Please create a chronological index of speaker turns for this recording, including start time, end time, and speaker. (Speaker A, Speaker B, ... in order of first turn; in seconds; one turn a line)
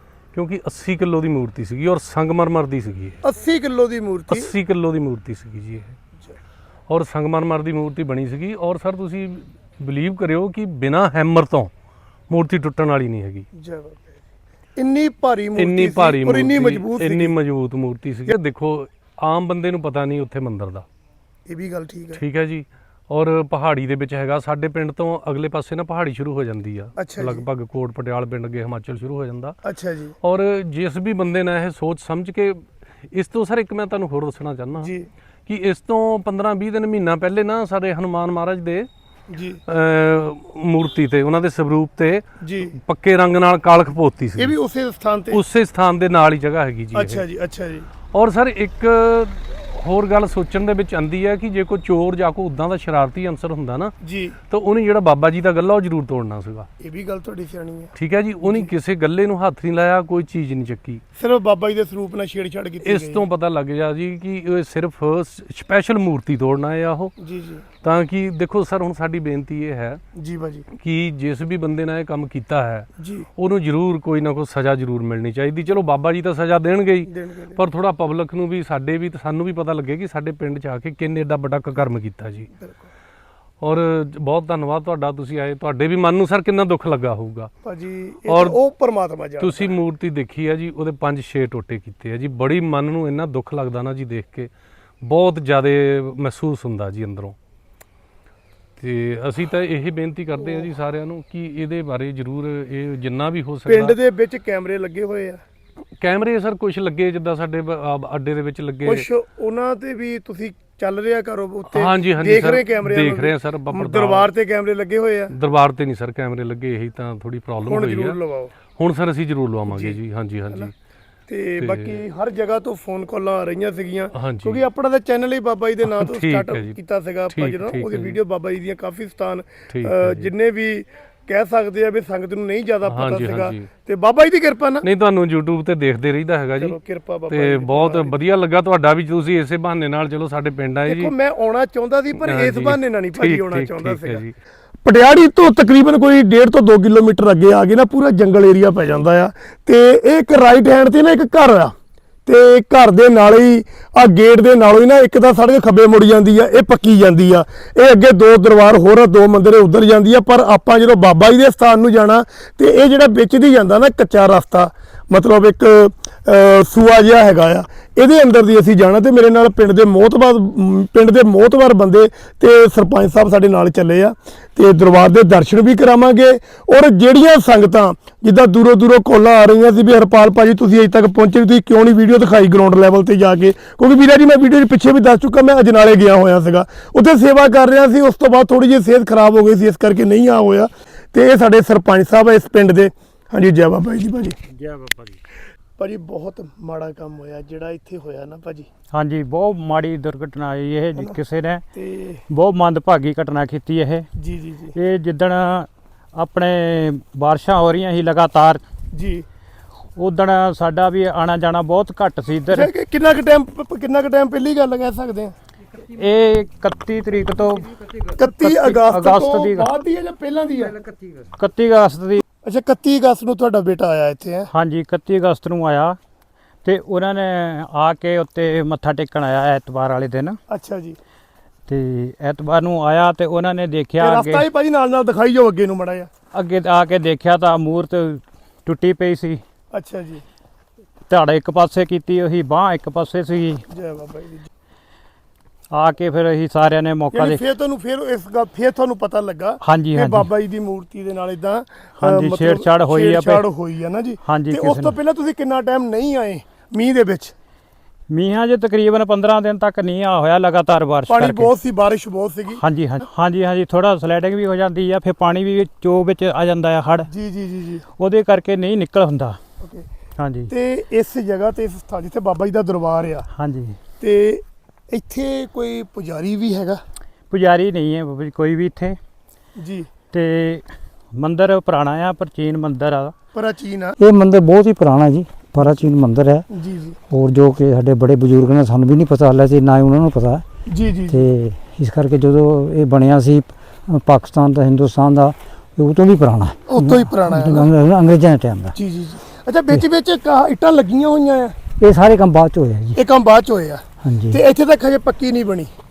Speaker A: 0.3-3.2
Speaker B: 3.2-4.5
Speaker A: 4.3-6.0
Speaker A: 6.9-11.7
Speaker A: 12.3-13.5
Speaker B: 13.6-14.2
Speaker B: 14.8-17.3
Speaker A: 15.6-20.9
Speaker B: 21.5-22.2
Speaker A: 22.2-29.6
Speaker B: 27.0-27.4
Speaker B: 29.6-30.1
Speaker A: 30.2-34.9
Speaker B: 34.8-35.1
Speaker A: 35.5-38.9
Speaker B: 39.3-39.6
Speaker A: 39.7-44.6
Speaker B: 42.4-42.7
Speaker B: 44.4-45.4
Speaker A: 45.3-47.2
Speaker B: 46.9-47.9
Speaker A: 48.1-53.9
Speaker B: 54.0-54.4
Speaker A: 54.5-56.7
Speaker B: 56.8-58.7
Speaker A: 58.0-61.0
Speaker B: 61.2-63.2
Speaker A: 62.9-67.2
Speaker B: 67.2-67.6
Speaker A: 67.8-70.0
Speaker B: 70.2-70.7
Speaker A: 70.7-82.5
Speaker B: 73.0-73.3
Speaker B: 77.1-77.6
Speaker B: 82.6-82.9
Speaker A: 83.6-87.5
Speaker B: 87.6-89.8
Speaker A: 88.3-88.6
Speaker A: 89.4-94.5
Speaker A: 95.0-97.3
Speaker A: 98.8-104.0
Speaker B: 103.7-105.4
Speaker A: 106.0-109.1
Speaker B: 108.9-115.3
Speaker A: 111.7-114.3
Speaker A: 115.3-118.2
Speaker B: 117.7-118.5
Speaker A: 118.7-120.7
Speaker B: 119.7-120.0
Speaker B: 121.3-134.9
Speaker A: 121.6-122.0
Speaker A: 124.1-124.6
Speaker A: 125.9-126.8
Speaker A: 127.3-128.2
Speaker A: 129.7-130.3
Speaker A: 132.9-133.7
Speaker A: 134.8-136.8
Speaker B: 136.6-138.1
Speaker A: 137.3-141.1
Speaker B: 140.9-144.2
Speaker A: 142.2-144.3
Speaker B: 144.8-151.7
Speaker B: 152.3-194.4
Speaker C: 194.5-195.2
Speaker B: 195.8-198.7
Speaker C: 198.9-201.6
Speaker B: 201.7-202.2
Speaker C: 202.3-204.1
Speaker B: 204.2-204.8
Speaker C: 204.8-208.6
Speaker B: 208.9-209.3
Speaker C: 210.0-212.7
Speaker B: 212.5-215.4
Speaker C: 215.9-219.7
Speaker B: 218.2-220.8
Speaker C: 221.3-222.2
Speaker B: 222.4-224.5
Speaker C: 224.5-226.0
Speaker C: 226.6-230.4
Speaker B: 230.5-231.0
Speaker C: 231.7-234.5
Speaker B: 234.0-236.1
Speaker C: 236.3-239.4
Speaker B: 239.7-240.2
Speaker C: 241.1-243.6
Speaker B: 243.7-244.5
Speaker C: 245.7-247.4
Speaker B: 247.1-257.3
Speaker C: 249.6-250.3
Speaker C: 252.0-253.5
Speaker C: 254.2-255.0
Speaker C: 258.1-261.5
Speaker B: 261.1-262.6
Speaker C: 262.6-267.1
Speaker B: 267.1-267.9
Speaker C: 268.0-269.4
Speaker B: 269.6-269.9
Speaker C: 270.2-270.5
Speaker B: 270.5-273.3
Speaker C: 273.4-273.8
Speaker B: 274.0-276.8
Speaker C: 277.3-279.0
Speaker B: 279.6-279.9
Speaker C: 280.1-280.6
Speaker C: 281.2-283.1
Speaker B: 283.3-283.9
Speaker D: 284.0-286.5
Speaker B: 286.5-287.0
Speaker D: 287.1-290.4
Speaker B: 290.7-291.3
Speaker D: 291.1-298.8
Speaker B: 296.7-297.7
Speaker B: 298.8-301.6
Speaker D: 301.8-303.0
Speaker B: 302.9-305.7
Speaker D: 304.0-304.4